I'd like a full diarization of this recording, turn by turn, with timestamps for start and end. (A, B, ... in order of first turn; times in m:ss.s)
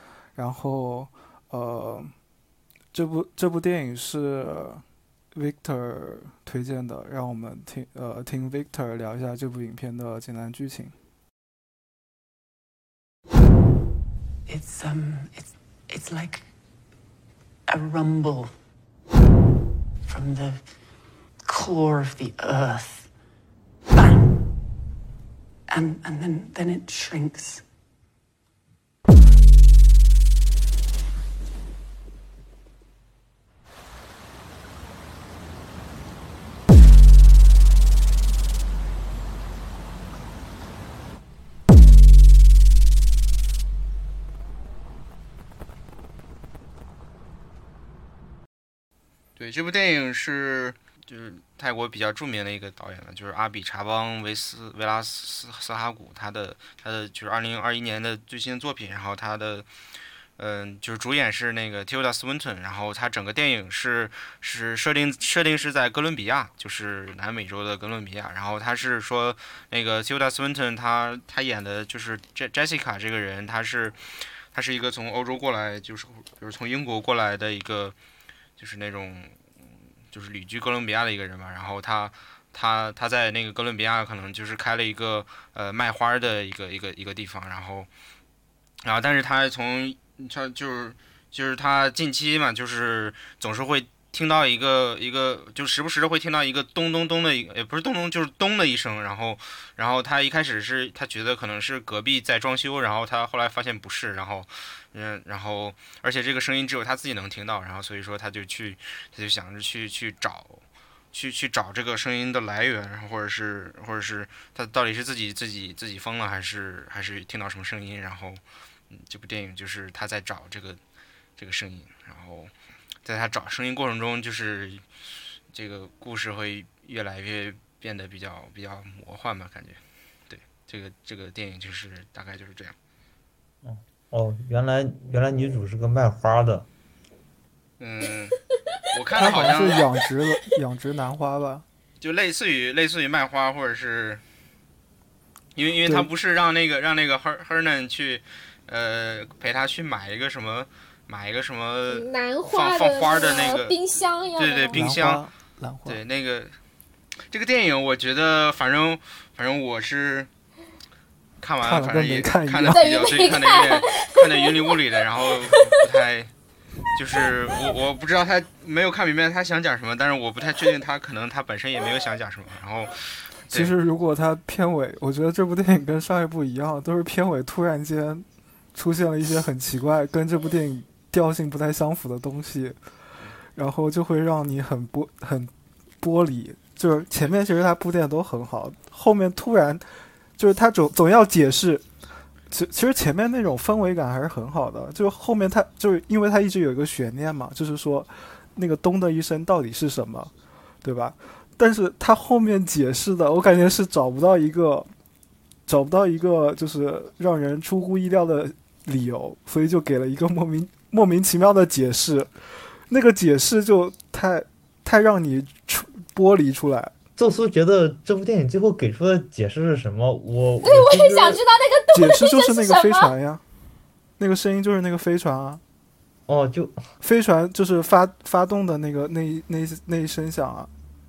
0:00.3-0:02.1 A
0:02.9-0:10.9 A
0:14.5-0:16.5 B
0:17.7-0:18.5 B
0:20.0-0:20.8 B
0:21.4-0:23.1 B
0:23.9-0:24.5 B
0:25.7-0:27.6 B
0:49.4-0:59.6 C
1:00.4-1:18.0 C
1:18.6-1:19.4 C
1:20.1-1:27.9 C
1:28.8-1:50.6 C
1:51.1-2:00.8 C
2:01.4-2:02.5 C
2:03.0-2:04.9 C
2:05.5-2:12.8 C
2:13.6-2:16.7 D
2:17.8-2:18.4 C
2:18.9-2:19.9 C
2:19.2-2:21.6 A
2:22.0-2:24.2 C
2:25.6-2:33.8 C
2:31.9-2:34.8 E
2:34.4-2:35.2 C
2:34.7-2:36.0 A
2:35.9-2:36.6 C
2:37.3-2:40.3 C
2:41.4-2:46.3 C
2:41.6-2:42.8 A
2:42.7-2:44.5 E
2:45.2-2:45.5 E
2:46.9-2:53.8 C
2:53.5-3:02.8 A
3:03.6-3:11.9 A
3:12.5-3:20.3 A
3:20.8-3:24.9 A
3:25.7-3:36.9 A
3:37.2-3:41.4 D
3:40.6-3:43.1 E
3:41.9-3:43.4 A
3:44.2-3:45.6 A
3:46.3-3:46.7 D
3:47.0-3:50.7 A